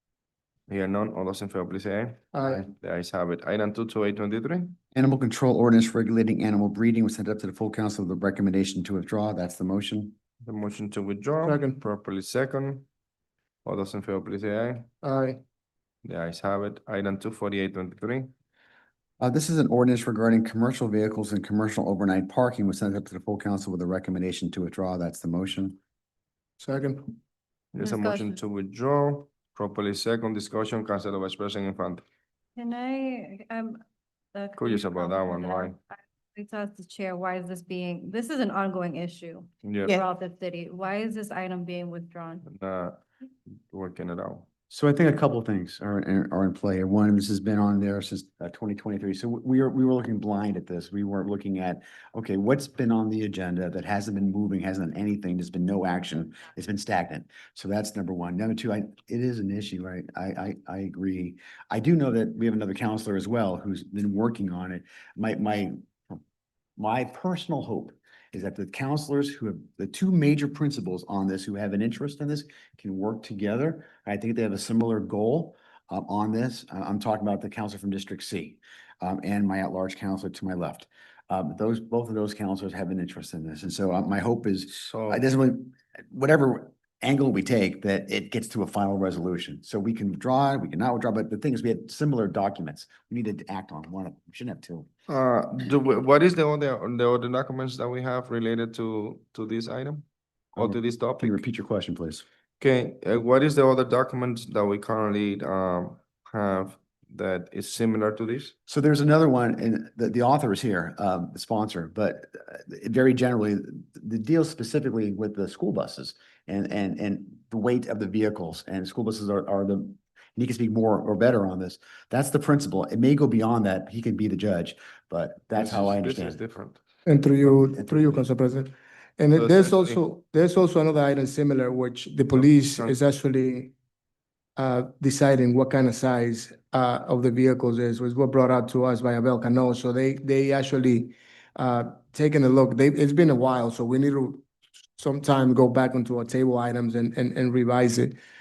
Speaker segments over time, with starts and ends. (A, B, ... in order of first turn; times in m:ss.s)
0:00.7-0:04.8 A
0:02.3-0:02.6 B
0:04.9-0:10.1 C
0:10.4-0:12.9 A
0:11.4-0:11.8 B
0:13.6-0:14.9 A
0:15.0-0:15.4 B
0:16.0-0:18.3 A
0:19.2-0:25.8 C
0:26.6-0:27.1 B
0:27.7-0:32.0 A
0:27.8-0:28.4 D
0:32.6-0:33.8 D
0:34.3-0:42.4 D
0:34.6-0:35.8 A
0:39.6-0:40.0 A
0:42.4-0:43.0 A
0:43.7-0:44.5 A
0:44.7-1:06.2 C
1:06.8-1:34.9 C
1:24.7-1:25.2 A
1:35.1-1:40.0 A
1:40.6-1:42.2 C
1:40.6-1:41.4 A
1:42.6-1:48.5 A
1:48.7-2:06.4 C
2:05.5-2:06.8 A
2:07.0-2:13.7 B
2:07.5-2:08.3 C
2:09.3-2:10.0 A
2:12.3-2:13.0 A
2:14.6-2:24.4 B
2:25.0-2:28.2 B